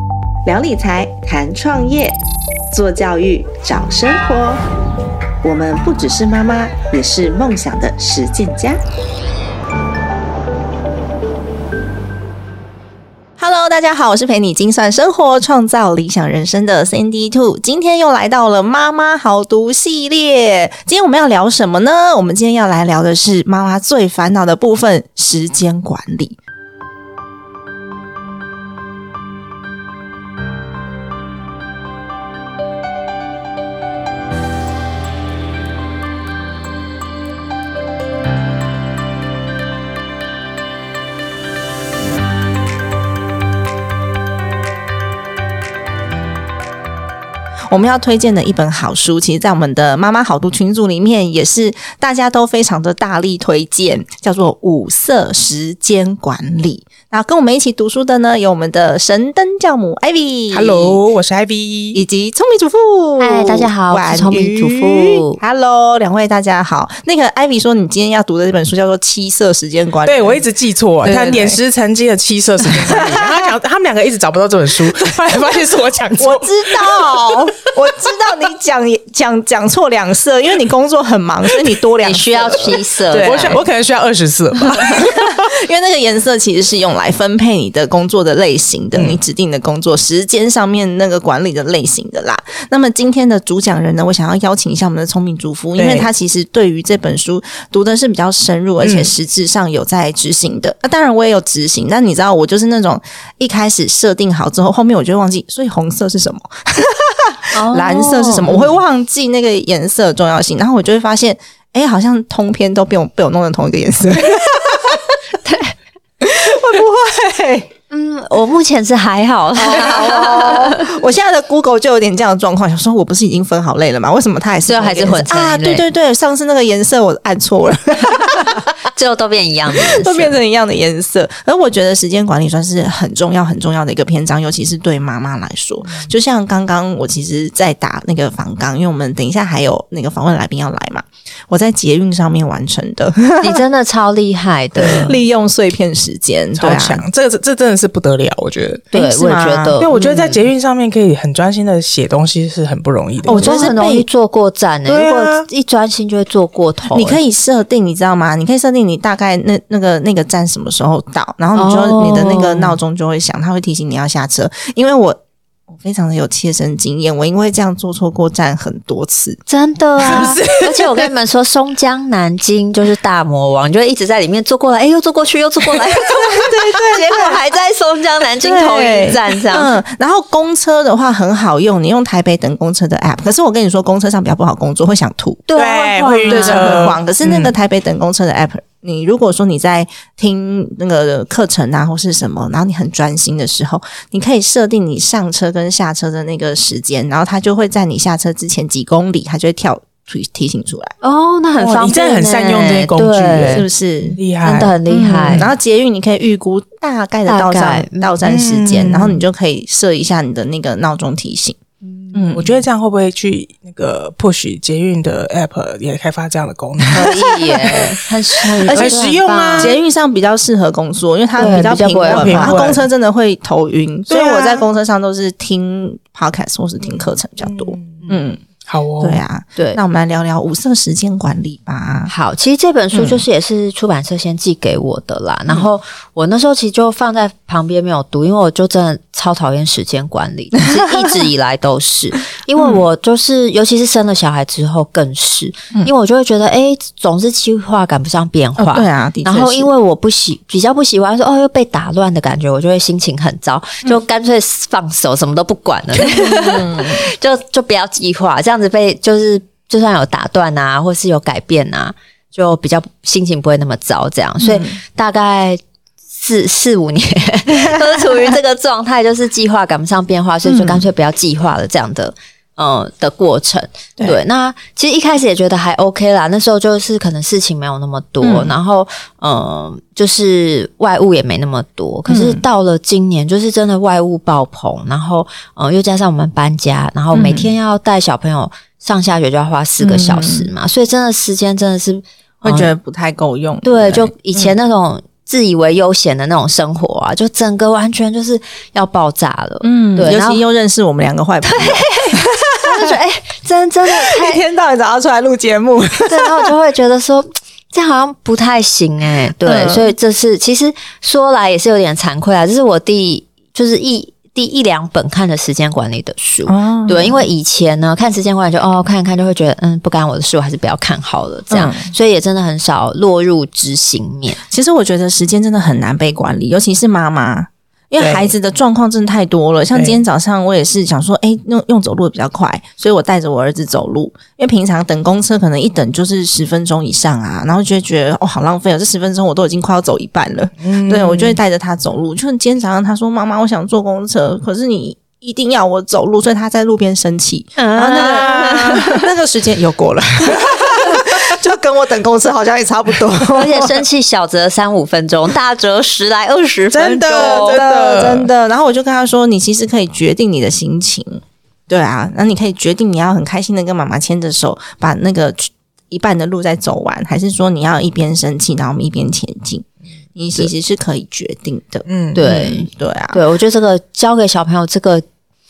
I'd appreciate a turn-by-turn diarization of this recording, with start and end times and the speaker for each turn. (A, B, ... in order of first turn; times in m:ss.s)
0:00.5-0:02.2 A
0:02.7-0:04.6 A
0:05.4-0:08.8 A
0:13.4-0:26.4 A
0:47.7-1:01.0 A
1:00.5-1:02.0 B
1:01.9-1:10.4 A
1:03.2-1:05.4 C
1:10.0-1:17.4 B
1:11.0-1:11.6 A
1:12.8-1:13.4 A
1:16.2-1:23.6 A
1:22.0-1:23.6 C
1:23.1-1:25.3 B
1:24.7-1:55.1 A
1:29.0-1:29.2 B
1:35.8-1:36.1 B
1:38.8-1:39.1 B
1:47.5-1:48.7 C
1:55.4-1:55.7 C
1:56.2-1:57.7 A
1:57.9-2:00.8 C
1:59.6-2:08.6 A
2:04.6-2:05.9 C
2:08.9-2:10.4 C
2:09.7-2:23.6 A
2:15.8-2:16.1 B
2:23.4-2:25.2 C
2:24.8-2:27.0 A
2:24.8-2:25.2 B
2:26.6-2:28.9 B
2:28.9-2:30.0 C
2:28.9-2:30.4 A
2:29.8-2:33.7 B
2:33.2-2:34.1 A
2:33.3-2:37.2 C
2:34.9-2:35.5 B
2:36.9-2:49.4 A
2:41.5-2:42.8 C
2:49.5-2:59.8 C
2:50.0-2:50.4 A
2:50.0-2:51.1 B
2:56.1-2:57.4 A
2:58.4-3:05.5 A
3:05.5-3:06.9 C
3:05.6-3:07.5 B
3:06.2-3:20.9 A
3:21.0-3:23.7 C
3:21.6-3:25.5 B
3:23.5-3:24.2 A
3:24.4-3:25.5 C
3:24.9-3:31.6 A
3:27.3-3:28.2 C
3:28.2-3:29.2 B
3:31.8-3:32.3 C
3:32.1-3:32.6 A
3:32.3-3:37.9 B
3:36.9-3:39.8 C
3:37.6-3:38.0 A
3:38.6-3:39.0 A
3:38.6-3:39.8 B
3:39.6-3:48.4 A
3:41.4-3:42.7 C
3:41.4-3:42.8 B
3:44.1-3:44.7 B
3:47.4-3:49.2 B
3:49.0-3:52.1 A
3:49.6-3:49.8 C
3:52.1-4:25.6 C
3:52.9-3:53.2 A
4:02.6-4:02.8 A
4:08.6-4:09.7 A
4:15.9-4:17.1 A
4:24.4-4:24.8 A
4:26.1-4:52.7 C
4:27.5-4:28.4 A
4:30.4-4:30.9 A
4:38.2-4:38.5 A
4:42.1-4:42.4 A
4:47.1-4:47.6 A
4:49.8-4:50.5 A
4:52.4-4:54.6 A
4:53.6-5:00.4 C
4:59.6-5:03.0 A
5:01.4-5:04.4 C
5:03.9-5:06.6 A
5:06.1-5:24.4 C
5:09.4-5:09.9 A
5:16.5-5:17.3 A
5:21.5-5:21.9 A
5:24.4-5:53.8 A
5:28.0-5:28.3 B
5:29.7-5:30.0 B
5:40.6-5:41.4 B
5:47.6-5:49.0 C
5:48.0-5:49.0 B
5:53.3-5:57.6 C
5:56.7-5:58.3 B
5:56.9-6:13.2 A
6:11.9-6:12.2 B
6:12.2-6:15.0 C